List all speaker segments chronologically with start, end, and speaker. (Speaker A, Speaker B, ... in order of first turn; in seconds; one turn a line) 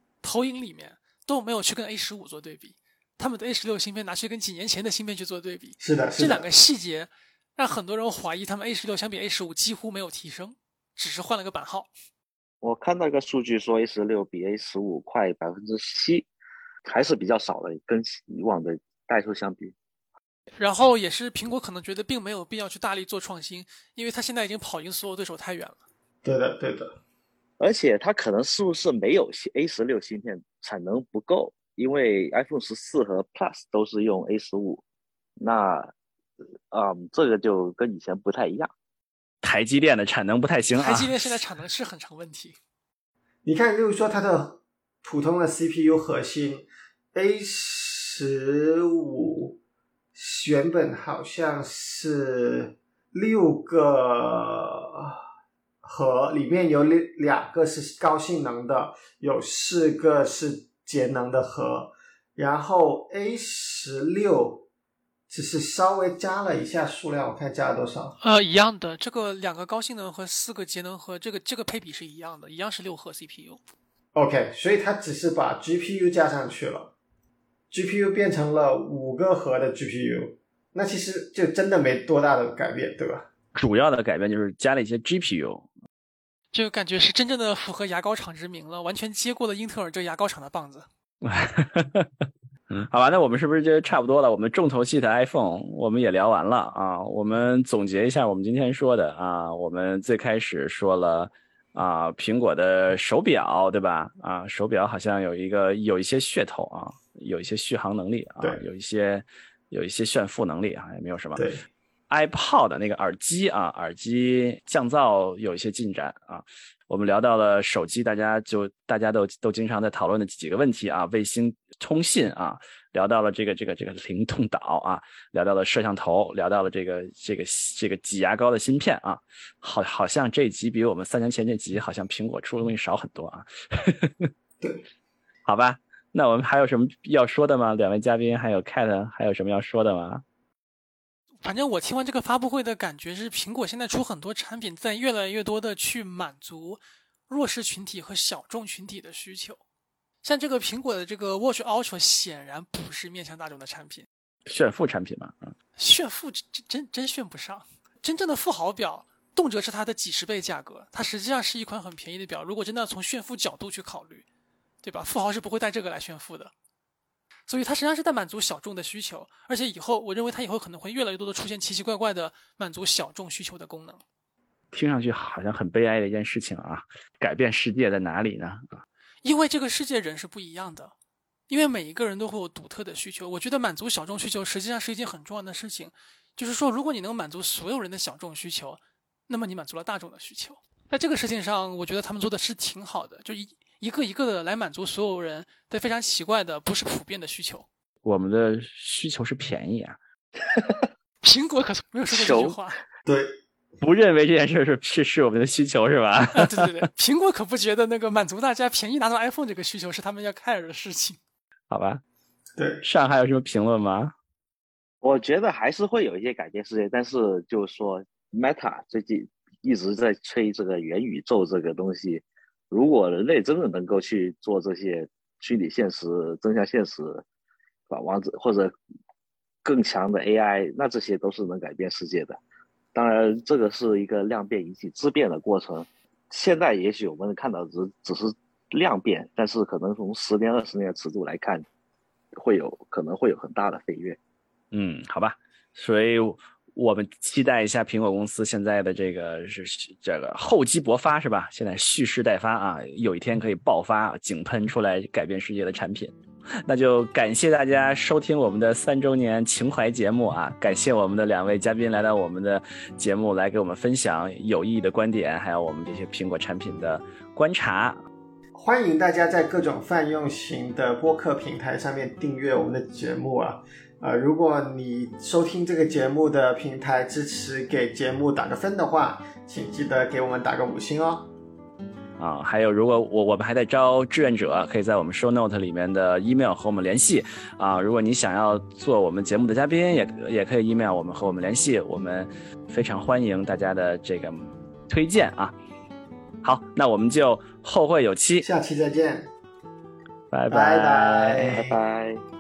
Speaker A: 0.2-11.9
Speaker B: 5.8-6.5
Speaker C: 12.6-16.3
Speaker C: 16.9-19.7
Speaker A: 20.6-25.8
Speaker B: 26.2-27.0
Speaker C: 27.6-34.8
Speaker C: 35.4-35.9
Speaker C: 36.7-38.7
Speaker D: 39.4-41.1
Speaker A: 40.8-42.6
Speaker B: 43.5-49.6
Speaker B: 50.1-55.2
Speaker B: 55.8-64.7
Speaker B: 65.3-68.2
Speaker A: 68.2-73.6
Speaker B: 74.2-76.9
Speaker B: 77.7-83.3
Speaker D: 83.5-85.7
Speaker A: 86.5-90.9
Speaker D: 91.2-111.5
Speaker B: 111.4-111.7
Speaker D: 112.1-134.3
Speaker D: 135.5-140.2
Speaker A: 141.4-149.6
Speaker A: 150.2-154.1
Speaker D: 154.5-155.5
Speaker A: 155.8-164.2
Speaker A: 164.8-166.5
Speaker A: 167.5-174.0
Speaker D: 174.7-178.8
Speaker A: 179.2-180.9
Speaker A: 181.5-197.7
Speaker D: 198.0-200.0
Speaker C: 200.5-200.8
Speaker A: 201.2-202.8
Speaker C: 202.1-202.6
Speaker B: 203.1-203.3
Speaker D: 203.8-206.8
Speaker A: 206.3-211.2
Speaker D: 211.7-212.0
Speaker B: 212.6-212.8
Speaker D: 212.8-214.1
Speaker C: 215.0-227.2
Speaker C: 227.9-228.7
Speaker C: 229.6-232.4
Speaker C: 232.9-241.7
Speaker C: 242.3-244.2
Speaker D: 244.7-268.0
Speaker B: 268.6-281.3
Speaker D: 282.2-295.6
Speaker D: 296.4-298.5
Speaker B: 298.4-299.3
Speaker D: 300.3-301.6
Speaker B: 300.5-301.8
Speaker C: 301.5-302.2